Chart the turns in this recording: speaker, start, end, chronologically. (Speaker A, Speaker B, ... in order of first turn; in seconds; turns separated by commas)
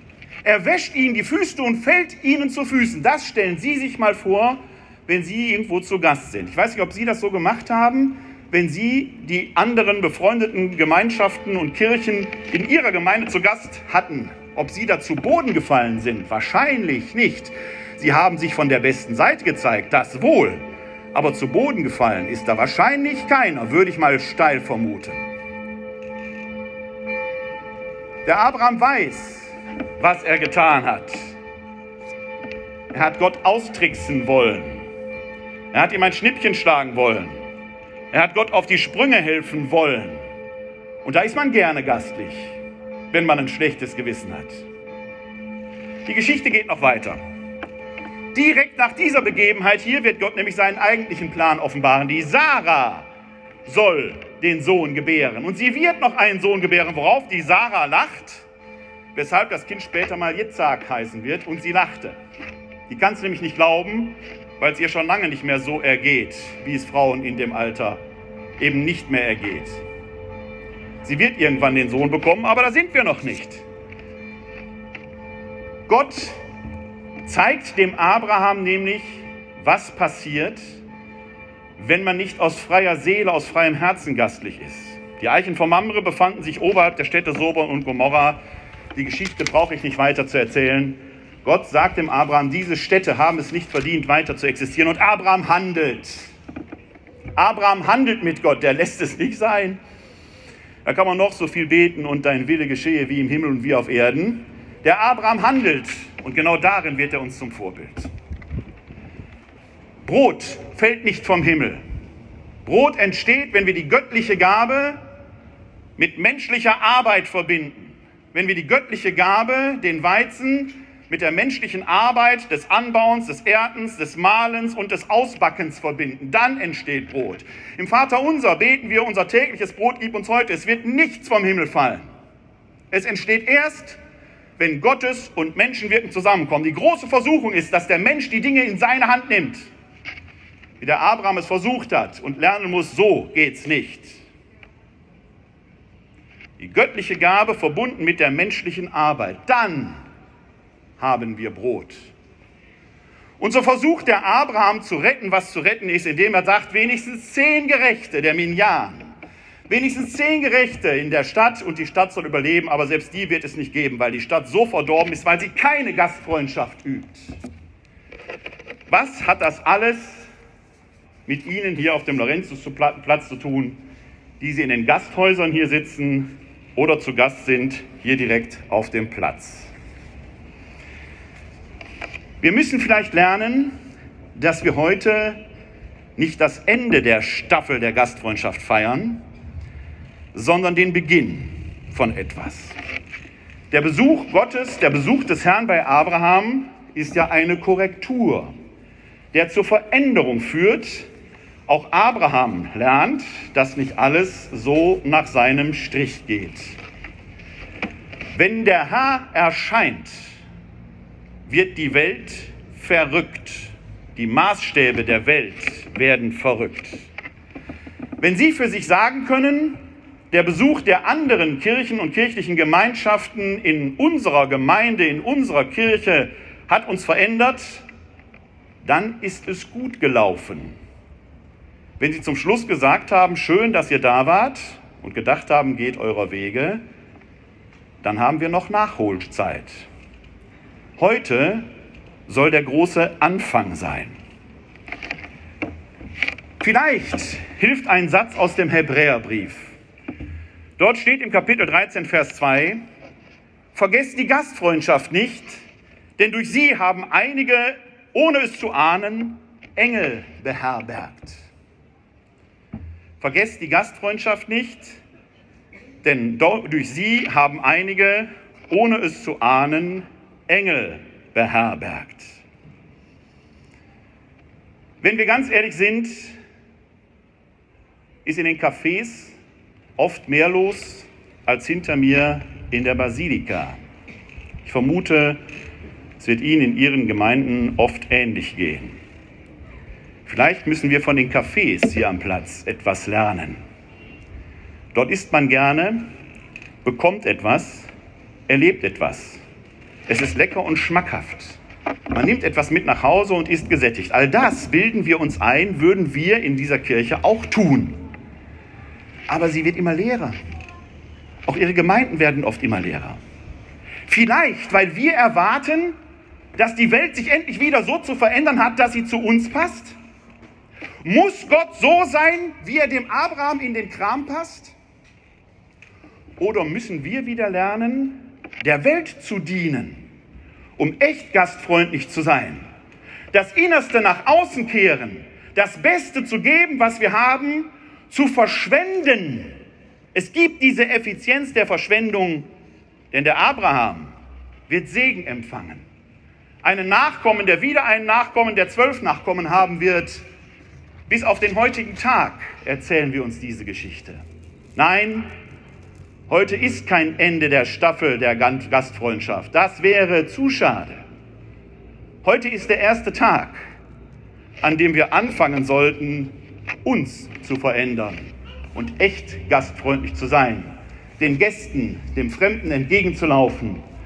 Speaker A: 0.4-25.2, Speaker A: 28.2-31.3, Speaker A: 32.9-34.9, Speaker A: 35.7-37.4, Speaker A: 38.1-40.2, Speaker A: 41.0-42.6, Speaker A: 43.1-44.7, Speaker A: 46.1-47.2, Speaker A: 48.3-53.1, Speaker A: 53.7-58.5, Speaker A: 59.1-62.2, Speaker A: 62.9-68.0, Speaker A: 68.6-69.8, Speaker A: 71.0-73.6, Speaker A: 75.9-76.4, Speaker A: 77.2-80.6, Speaker A: 81.8-88.4, Speaker A: 89.0-96.3, Speaker A: 97.4-99.8, Speaker A: 100.8-108.1, Speaker A: 110.0-111.8, Speaker A: 112.7-115.0, Speaker A: 116.0-132.1, Speaker A: 132.9-134.0, Speaker A: 134.6-139.7, Speaker A: 140.8-144.2, Speaker A: 146.6-150.0, Speaker A: 151.0-152.1, Speaker A: 153.4-159.1, Speaker A: 159.7-167.2, Speaker A: 168.9-170.3, Speaker A: 171.3-173.8, Speaker A: 174.4-179.7, Speaker A: 182.4-183.7, Speaker A: 184.4-185.4, Speaker A: 186.2-189.2, Speaker A: 190.3-192.8, Speaker A: 193.7-198.6, Speaker A: 199.3-201.1, Speaker A: 201.7-206.8, Speaker A: 208.3-210.3, Speaker A: 211.5-217.1, Speaker A: 218.2-219.8, Speaker A: 220.3-227.8, Speaker A: 228.8-230.8, Speaker A: 232.0-236.8, Speaker A: 238.0-239.9, Speaker A: 241.0-241.7, Speaker A: 242.3-244.2, Speaker A: 246.6-249.8, Speaker A: 250.8-252.8, Speaker A: 253.7-255.6, Speaker A: 256.2-261.4, Speaker A: 263.2-265.0, Speaker A: 266.0-272.4, Speaker A: 275.0-276.4, Speaker A: 278.2-279.4, Speaker A: 280.0-283.8, Speaker A: 284.6-285.4, Speaker A: 286.2-289.0, Speaker A: 290.3-293.6, Speaker A: 294.9-296.0, Speaker A: 296.8-297.9, Speaker A: 298.5-299.4, Speaker A: 300.1-301.6, Speaker A: 302.1-308.0, Speaker A: 309.3-310.4, Speaker A: 311.5-313.2, Speaker A: 314.1-315.9, Speaker A: 316.6-320.0, Speaker A: 321.0-324.7, Speaker A: 326.4-330.0, Speaker A: 330.8-332.6, Speaker A: 333.3-339.6, Speaker A: 340.1-342.5, Speaker A: 343.1-344.1, Speaker A: 344.7-345.9, Speaker A: 346.6-350.2, Speaker A: 351.1-354.2, Speaker A: 354.8-355.3, Speaker A: 356.3-361.0, Speaker A: 362.2-363.6, Speaker A: 364.6-373.8